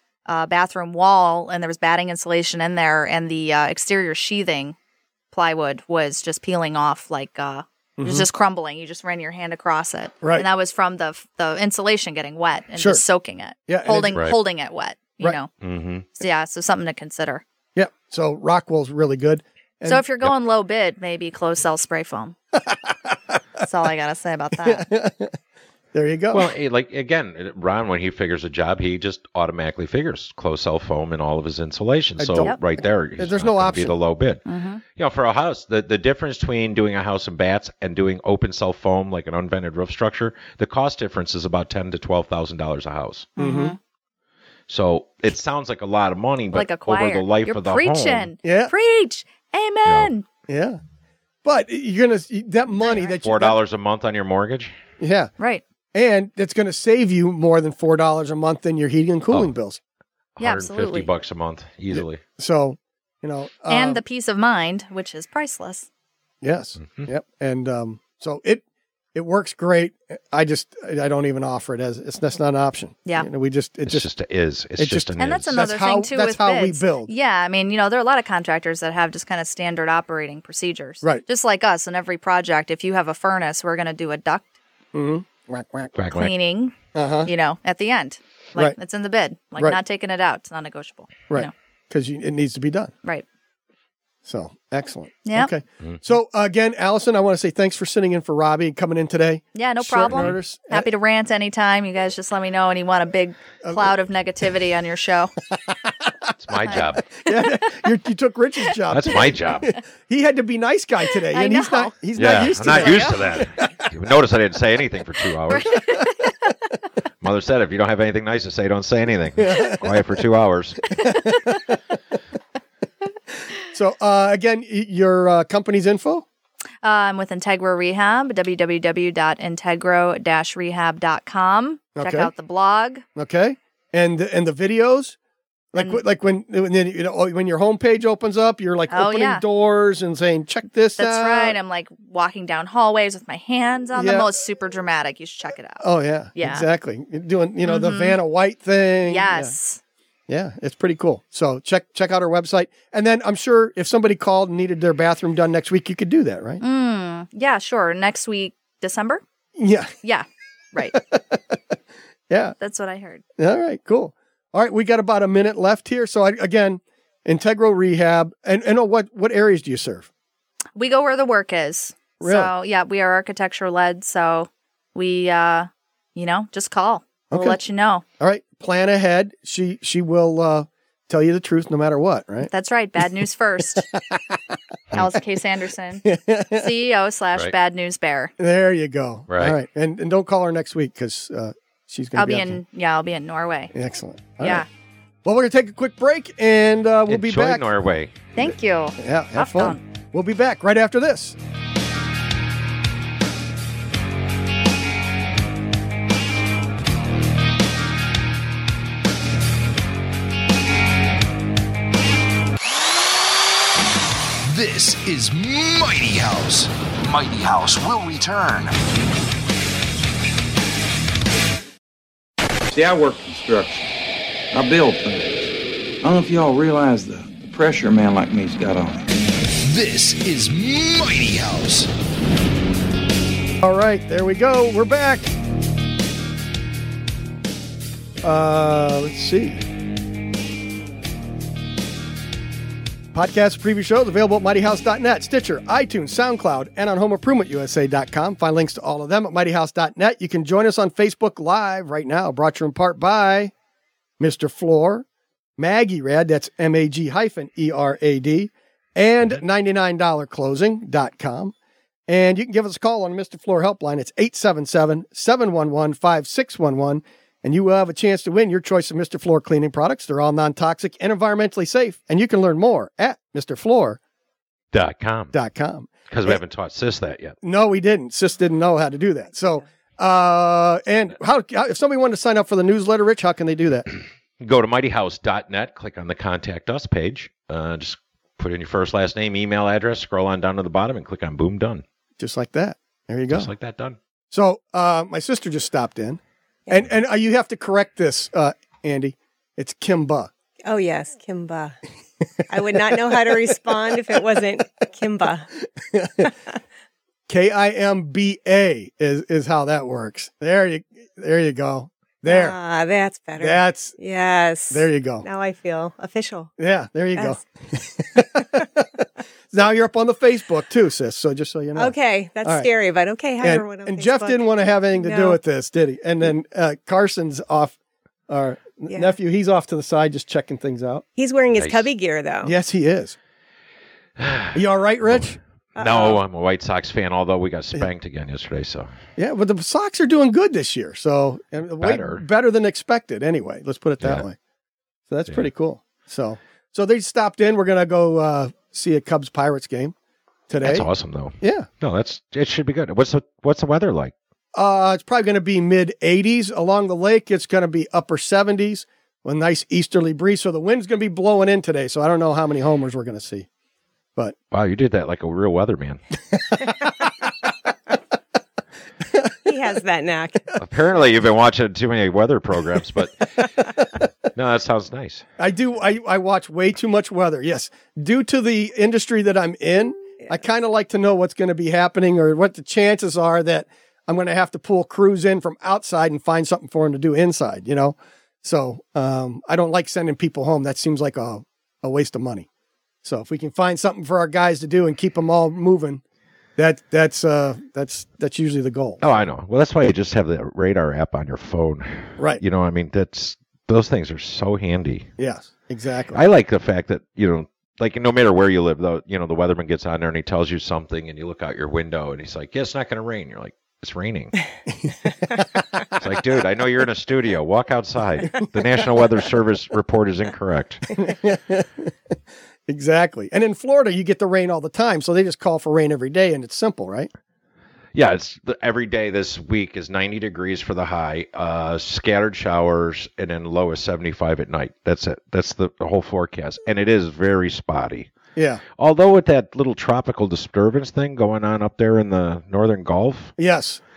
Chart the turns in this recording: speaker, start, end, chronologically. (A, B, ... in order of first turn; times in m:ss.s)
0:00.3-0:04.8 A
0:05.3-0:15.5 A
0:08.0-0:08.3 B
0:10.2-0:10.5 B
0:12.8-0:13.0 B
0:13.7-0:14.2 B
0:15.6-0:16.1 C
0:16.2-0:17.4 A
0:17.8-0:20.0 B
0:19.9-0:22.4 A
0:23.6-0:24.8 A
0:24.6-0:25.4 B
0:25.9-0:26.5 B
0:26.3-0:34.4 C
0:32.2-0:34.0 B
0:34.5-0:34.8 A
0:35.0-0:43.3 C
0:43.4-0:43.8 A
0:43.4-0:43.8 B
0:44.7-0:48.3 C
0:46.5-0:50.2 A
0:48.4-0:48.7 B
0:50.5-0:50.8 B
0:51.4-0:53.6 B
0:53.2-0:54.7 C
0:55.0-0:55.3 B
0:55.9-0:59.8 B
1:00.4-1:02.2 C
1:00.4-1:01.1 A
1:01.9-1:04.0 B
1:03.7-1:05.9 A
1:06.4-1:08.6 B
1:06.8-1:07.1 C
1:09.1-1:14.0 B
1:13.9-1:15.6 C
1:14.8-1:17.1 B
1:15.2-1:24.5 A
1:24.9-1:25.9 B
1:26.0-1:26.3 C
1:26.1-1:31.5 A
1:26.9-1:27.3 B
1:31.3-1:32.9 B
1:34.2-1:40.9 B
1:35.3-1:35.5 A
1:39.6-1:45.3 A
1:43.6-1:43.9 B
1:45.5-1:53.9 B
1:46.4-1:47.1 C
1:46.7-1:47.9 A
1:48.9-1:49.8 C
1:51.3-1:51.9 A
1:52.2-1:55.9 C
1:52.6-1:53.4 A
1:55.5-1:56.5 A
1:55.8-1:56.0 B
1:57.2-2:01.0 C
1:59.4-1:59.9 B
2:01.0-2:01.6 A
2:01.0-2:01.8 B
2:03.7-2:06.3 B
2:06.8-2:13.0 A
2:12.0-2:12.3 B
2:13.2-2:15.2 B
2:15.7-2:21.6 B
2:15.8-2:16.0 A
2:18.9-2:19.4 A
2:21.0-2:25.8 A
2:23.9-2:24.3 B
2:25.8-2:29.6 B
2:26.4-2:26.7 A
2:27.6-2:28.2 A
2:29.1-2:29.8 A
2:30.3-2:36.6 B
2:36.6-2:39.2 A
2:39.6-2:39.9 B
2:40.0-2:41.0 A
2:40.9-2:41.6 B
2:42.3-2:42.6 B
2:42.6-2:43.2 A
2:43.4-2:50.1 B
2:50.8-2:58.0 A
2:52.2-2:52.5 B
2:57.3-2:57.6 B
2:58.2-3:02.5 B
3:02.4-3:03.9 A
3:03.8-3:04.5 B
3:04.9-3:08.3 A
3:06.0-3:06.7 B
3:08.4-3:12.6 B
3:09.3-3:09.6 C
3:12.2-3:13.7 A
3:13.7-3:14.6 B
3:14.4-3:14.7 A
3:15.2-3:17.7 B
3:17.1-3:18.1 C
3:18.4-3:19.8 A
3:18.4-3:21.4 B
3:34.4-3:38.7 D
3:42.7-3:43.9 E
3:44.5-3:49.2 E
3:49.6-3:51.9 D
3:53.6-3:55.3 B
3:58.2-3:59.6 B
4:03.1-4:13.5 B
4:14.2-4:15.1 B
4:15.6-4:21.5 B
4:22.1-4:34.0 B
4:34.7-4:35.4 C
4:35.3-4:36.4 B
4:36.1-4:37.4 C
4:37.4-4:43.9 B
4:44.4-4:51.8 C
4:52.2-4:53.5 B
4:53.3-4:54.0 C
4:54.3-5:00.3 B
5:00.6-5:01.8 F
5:02.5-5:05.5 F
5:02.9-5:04.4 B
5:05.8-5:06.3 B
5:07.3-5:12.6 B
5:12.3-5:16.5 F
5:13.4-5:14.0 B
5:14.7-5:15.2 B
5:16.6-5:22.7 B
5:17.2-5:17.4 F
5:21.8-5:25.4 F
5:23.4-5:27.8 B
5:28.3-5:31.0 B
5:28.9-5:29.2 F
5:31.2-5:32.6 F
5:31.6-5:31.9 C
5:32.4-5:33.2 B
5:34.2-5:34.6 C
5:34.5-5:35.4 B
5:35.8-5:38.9 C
5:35.8-5:36.2 F
5:39.2-5:44.4 B
5:41.8-5:42.2 C
5:45.1-5:50.0 B
5:50.5-5:50.9 B
5:50.6-5:54.1 C
5:51.4-5:51.7 B
5:54.6-6:03.5 B
6:04.5-6:06.0 C
6:06.3-6:06.8 B
6:09.0-6:09.5 B
6:09.5-6:10.5 F
6:10.6-6:13.7 C
6:14.3-6:15.2 C
6:15.4-6:32.5 B
6:33.0-6:36.0 B
6:36.6-6:39.2 B
6:39.0-6:45.1 C
6:45.2-6:46.2 B
6:46.1-6:54.3 C
6:54.8-6:55.5 B
6:56.0-7:00.8 C
7:01.0-7:01.9 B
7:02.7-7:07.1 B
7:07.9-7:18.1 C
7:18.4-7:18.6 B
7:18.8-7:23.3 C
7:23.4-7:23.8 B